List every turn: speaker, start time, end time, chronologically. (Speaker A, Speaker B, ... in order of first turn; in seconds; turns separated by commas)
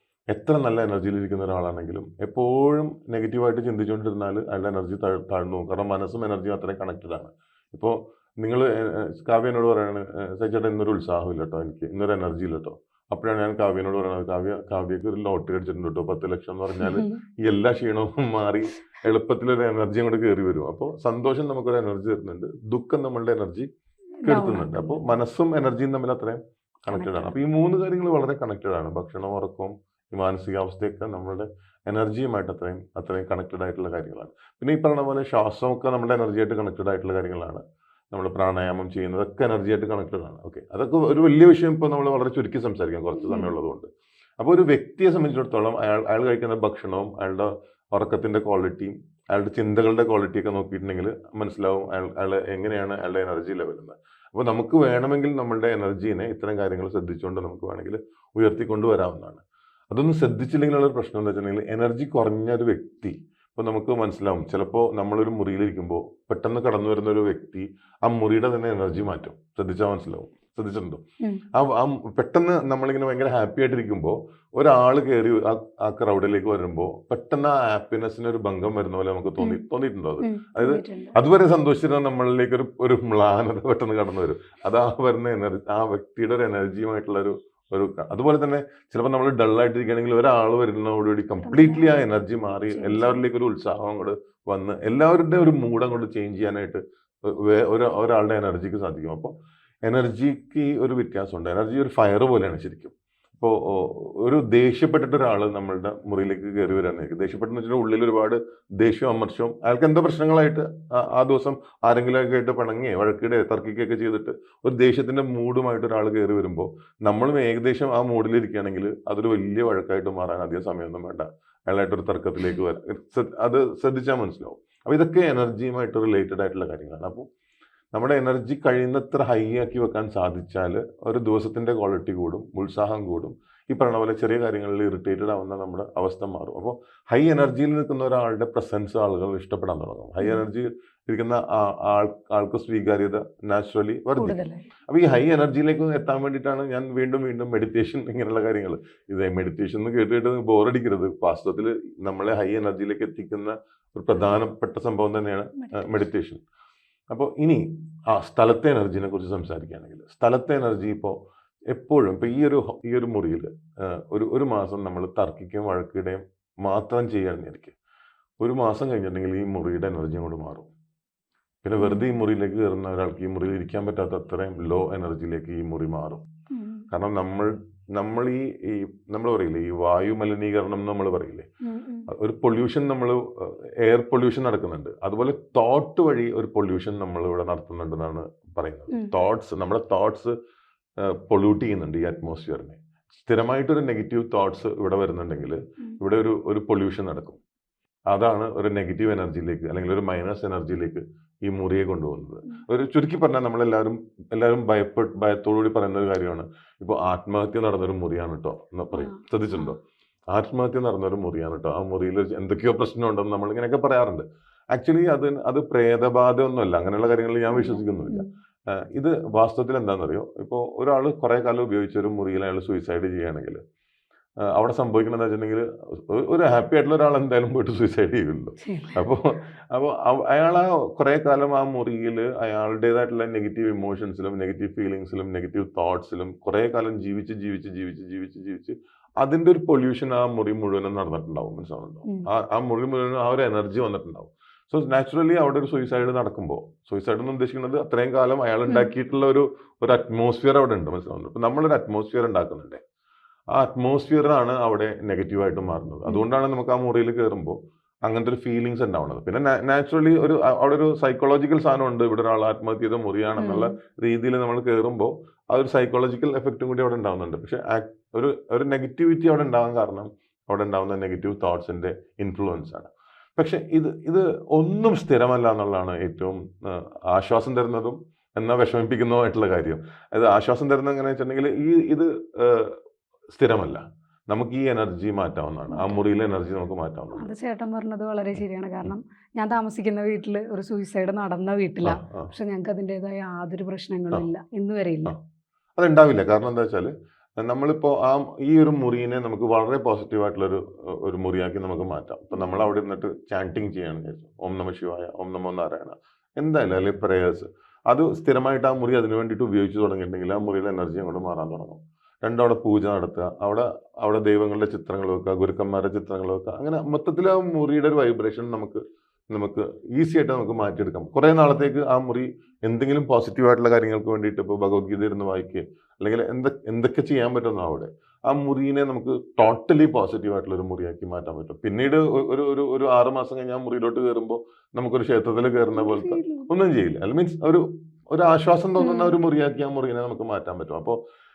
Speaker A: 0.3-23.7, Speaker B: 16.8-17.2, Speaker B: 24.2-25.0, Speaker A: 24.2-43.9, Speaker B: 26.9-27.4, Speaker B: 43.2-43.5, Speaker A: 44.4-71.0, Speaker A: 71.5-99.3, Speaker B: 80.2-81.2, Speaker B: 91.4-93.2, Speaker A: 99.9-127.3, Speaker A: 127.9-144.4, Speaker B: 144.2-144.7, Speaker A: 144.9-156.4, Speaker B: 155.6-156.0, Speaker A: 157.1-161.2, Speaker A: 161.7-167.8, Speaker A: 168.4-170.7, Speaker A: 171.6-176.2, Speaker B: 171.8-172.1, Speaker B: 176.5-176.8, Speaker A: 176.9-181.5, Speaker B: 181.6-182.1, Speaker A: 182.1-190.3, Speaker A: 191.0-197.4, Speaker A: 198.1-209.8, Speaker B: 208.9-209.8, Speaker A: 210.3-223.6, Speaker B: 217.5-218.3, Speaker A: 224.5-252.8, Speaker B: 228.6-229.0, Speaker A: 253.5-282.8, Speaker B: 263.4-263.7, Speaker A: 283.4-287.3, Speaker B: 285.7-286.0, Speaker B: 287.1-295.1, Speaker A: 291.8-292.3, Speaker A: 295.8-341.0, Speaker B: 302.3-302.7, Speaker B: 335.7-336.5, Speaker B: 338.8-339.2